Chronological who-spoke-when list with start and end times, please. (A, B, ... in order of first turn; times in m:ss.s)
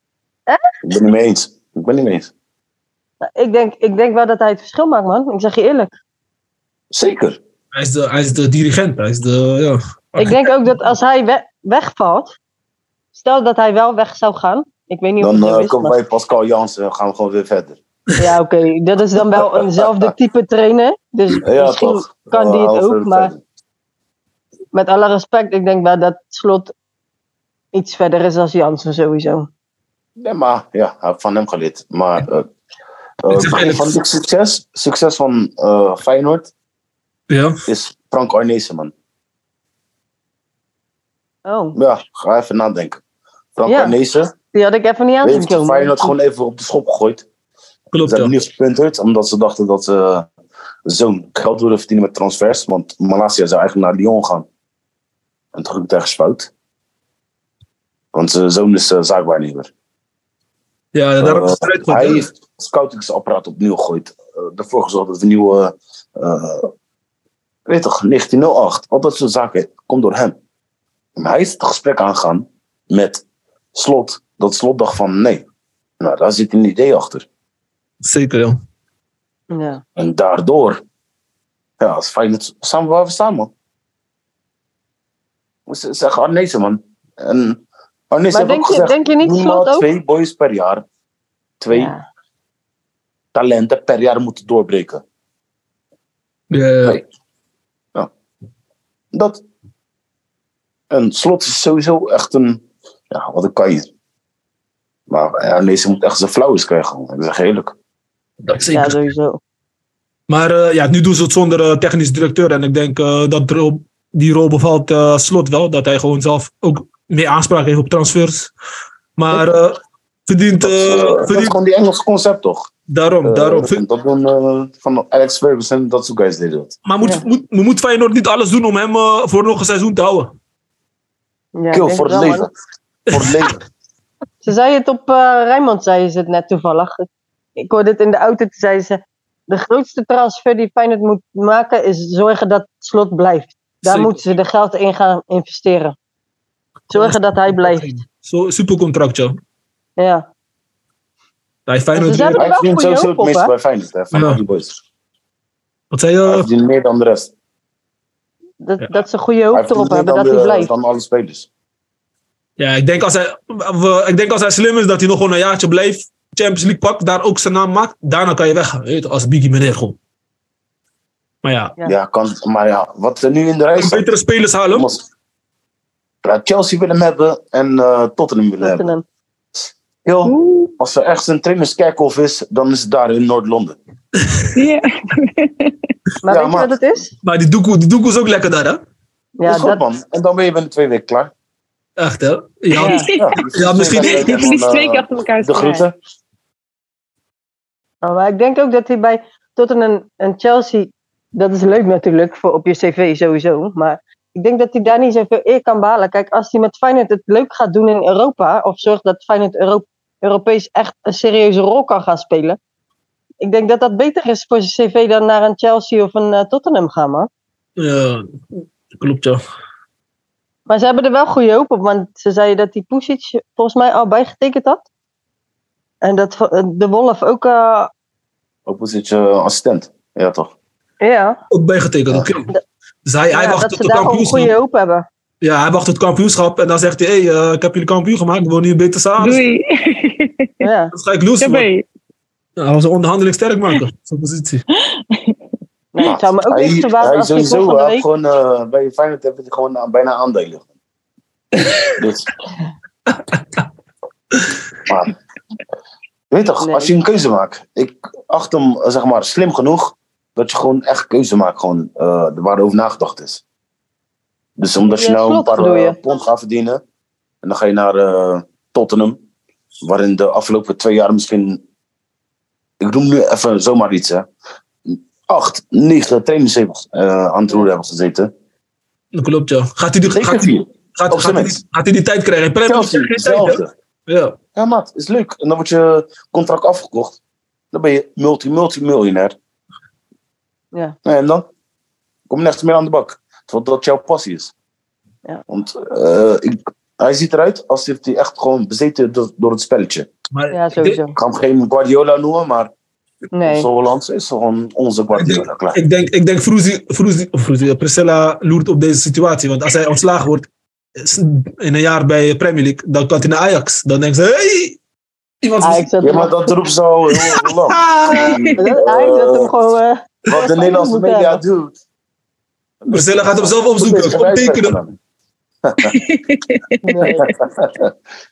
0:00.8-0:02.3 A
0:03.2-0:05.9 B
0:06.9-0:07.4 A
0:07.7-0:10.4 C
0:10.2-0:12.3 B
0:13.1-0:16.0 B
0:15.2-0:17.8 A
0:18.2-0:23.3 B
0:19.4-0:19.9 A
0:21.3-0:23.4 A
0:24.7-0:26.7 B
0:27.7-0:29.5 B
0:30.2-0:32.5 A
0:33.2-0:36.5 A
0:33.3-0:33.9 C
0:37.3-0:37.6 C
0:37.7-0:38.9 A
0:41.4-0:41.8 B
0:41.7-0:43.0 A
0:43.6-0:44.3 A
0:43.7-0:43.9 B
0:44.5-0:46.1 B
0:45.2-0:47.2 A
0:47.9-0:48.4 C
0:48.0-0:50.3 A
0:50.8-0:54.5 A
0:55.5-0:56.5 A
0:58.1-0:59.7 A
1:00.9-1:02.2 C
1:01.2-1:06.7 A
1:07.7-1:10.4 A
1:11.2-1:13.2 A
1:13.7-1:15.4 A
1:16.0-1:17.2 A
1:18.0-1:18.6 C
1:19.5-1:19.8 B
1:20.0-1:20.8 A
1:21.8-1:23.5 A
1:25.7-1:30.8 A
1:28.3-1:29.8 B
1:31.6-1:31.9 A
1:31.7-1:32.0 B
1:33.3-1:35.0 A
1:36.5-1:37.0 C
1:39.1-1:39.4 A
1:40.9-1:43.9 A
1:45.1-1:47.7 A
1:48.4-1:49.0 C
1:48.7-1:49.4 B
1:50.3-1:58.5 C
1:59.2-2:01.5 C
2:00.6-2:02.7 A
2:02.9-2:03.8 C
2:03.2-2:06.7 A
2:06.8-2:10.3 C
2:11.6-2:12.5 B
2:11.7-2:12.5 A
2:13.1-2:13.6 A
2:13.1-2:13.5 C
2:14.4-2:17.0 B
2:17.6-2:25.9 B
2:23.8-2:24.2 C
2:26.9-2:27.9 B
2:26.9-2:29.4 C
2:30.0-2:30.2 B
2:31.7-2:32.4 C
2:32.0-2:33.5 B
2:32.3-2:34.7 A
2:34.1-2:34.4 C
2:35.9-2:36.5 C
2:36.2-2:37.3 A
2:38.6-2:40.7 B
2:39.5-2:41.5 A
2:42.6-2:50.0 C
2:51.4-2:51.7 C
2:51.8-2:54.0 A
2:53.8-2:54.9 C
2:54.7-2:55.0 A
2:56.2-2:58.9 A
2:58.6-2:59.0 B
3:00.0-3:03.8 A
3:00.2-3:00.7 D
3:04.5-3:05.7 D
3:06.2-3:07.1 B
3:06.2-3:06.7 A
3:07.2-3:08.8 C
3:09.4-3:09.8 B
3:09.4-3:11.3 A
3:12.0-3:14.4 C
3:12.8-3:13.1 B
3:12.8-3:15.8 D
3:13.1-3:15.9 A
3:18.0-3:32.6 B
3:33.4-3:37.3 B
3:37.8-3:38.4 C
3:38.9-3:39.4 C
3:40.7-3:44.8 B
3:46.0-3:47.9 B
3:48.7-3:50.5 A
3:51.0-3:51.4 B
3:51.5-3:52.5 C
3:53.0-3:54.5 C
3:53.3-3:55.0 B
3:55.4-3:59.4 C
3:59.2-4:00.5 D
4:00.6-4:00.9 B
4:00.9-4:01.7 C
4:01.4-4:01.8 D
4:02.6-4:04.6 C
4:04.8-4:05.4 D
4:05.9-4:08.0 B
4:06.0-4:10.7 A
4:12.0-4:12.3 A
4:13.3-4:13.6 C
4:14.9-4:15.1 A
4:16.3-4:23.4 A
4:16.6-4:16.9 B
4:24.6-4:26.8 A
4:24.8-4:26.0 B
4:27.4-4:29.2 A
4:29.8-4:31.6 A
4:32.8-4:34.3 A
4:34.8-4:38.3 A
4:39.1-4:44.4 C
4:40.1-4:41.6 A
4:42.6-4:43.7 A
4:44.6-4:47.2 A
4:47.7-4:49.4 A
4:51.0-4:51.5 A
4:52.3-4:54.5 A
4:55.5-5:00.1 A
5:00.3-5:01.0 C
5:00.5-5:01.1 B
5:01.2-5:02.7 A
5:03.3-5:03.7 B
5:03.5-5:05.8 A
5:05.1-5:14.8 C
5:15.4-5:15.9 C
5:15.6-5:16.5 B
5:16.0-5:19.5 A
5:17.7-5:18.4 C
5:18.1-5:18.4 D
5:18.6-5:21.4 B
5:20.2-5:21.8 A
5:22.8-5:25.0 A
5:22.9-5:24.8 C
5:25.6-5:26.0 A
5:25.8-5:27.1 D
5:26.8-5:27.3 B
5:27.3-5:27.9 A